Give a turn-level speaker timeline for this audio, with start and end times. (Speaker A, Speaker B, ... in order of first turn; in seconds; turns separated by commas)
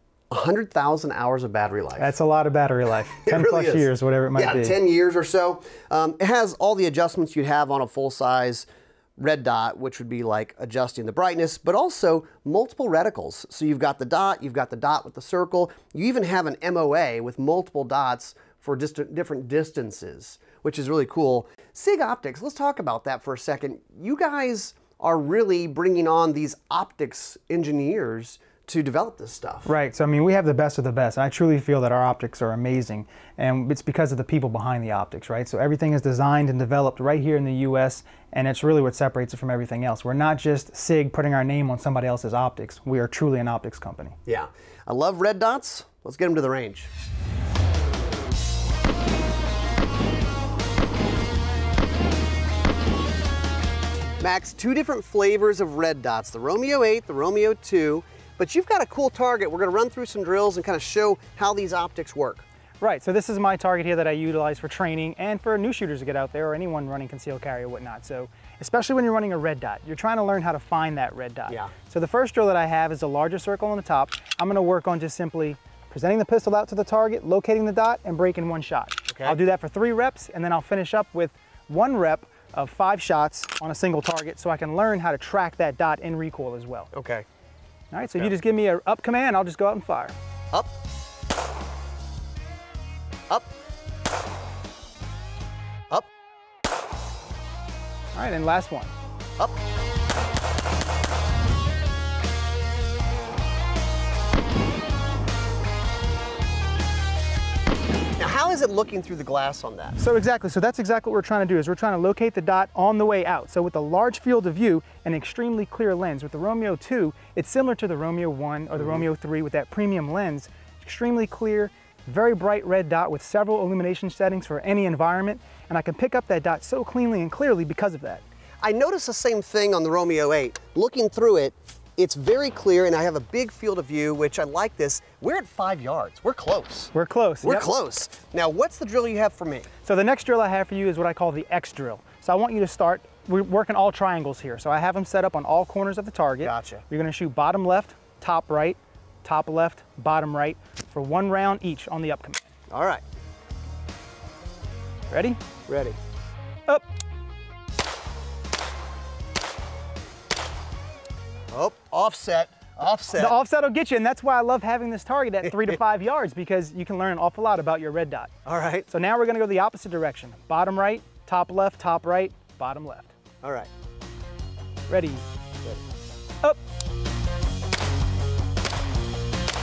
Speaker A: 0.3-2.1, Speaker B: 2.0-4.8, Speaker A: 3.2-8.7, Speaker A: 9.2-29.7, Speaker B: 29.6-44.1, Speaker A: 44.2-46.9, Speaker A: 54.2-62.4, Speaker B: 62.8-86.9, Speaker A: 79.1-79.4, Speaker A: 86.9-87.2, Speaker B: 87.9-90.1, Speaker B: 98.1-98.9, Speaker A: 108.2-110.0, Speaker B: 110.0-128.2, Speaker A: 128.6-136.9, Speaker B: 136.9-137.7, Speaker A: 137.4-139.7, Speaker B: 139.8-152.4, Speaker A: 146.4-146.8, Speaker A: 152.7-153.0, Speaker B: 155.1-155.4, Speaker A: 155.7-156.0, Speaker A: 161.5-163.3, Speaker B: 163.1-168.3, Speaker A: 165.4-165.8, Speaker A: 168.4-168.9, Speaker B: 168.9-173.1, Speaker A: 173.4-173.7, Speaker B: 174.9-175.2